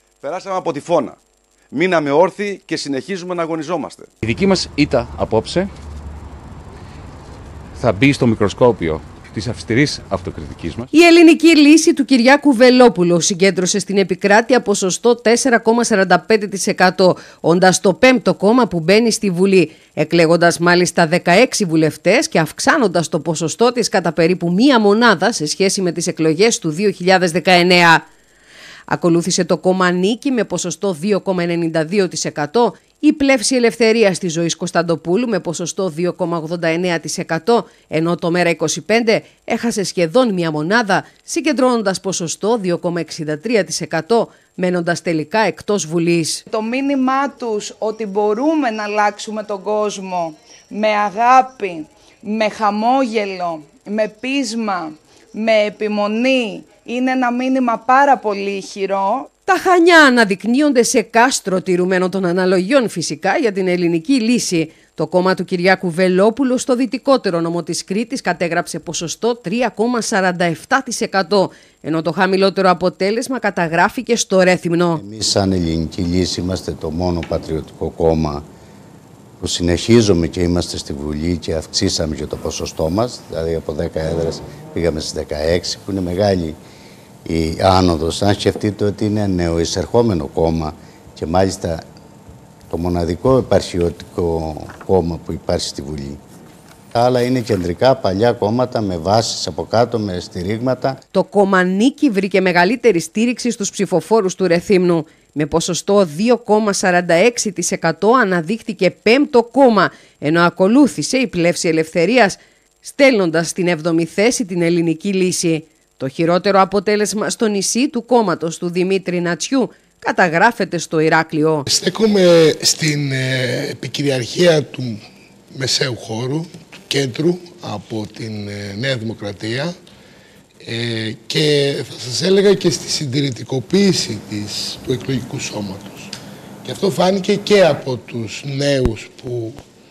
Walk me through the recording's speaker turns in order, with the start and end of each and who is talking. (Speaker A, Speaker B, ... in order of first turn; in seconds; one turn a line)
Speaker A: 0.2-1.2
Speaker A: 1.7-4.1
Speaker B: 4.2-5.7
Speaker B: 7.8-10.9
Speaker C: 10.9-28.1
Speaker C: 28.9-46.4
Speaker D: 46.5-59.3
Speaker C: 59.5-75.0
Speaker E: 75.0-78.4
Speaker E: 79.4-86.6
Speaker E: 87.3-91.8
Speaker E: 92.7-96.2
Speaker E: 96.9-101.0
Speaker C: 101.1-121.7
Speaker F: 121.7-125.0
Speaker F: 125.5-129.7
Speaker F: 130.6-136.1
Speaker F: 136.6-139.6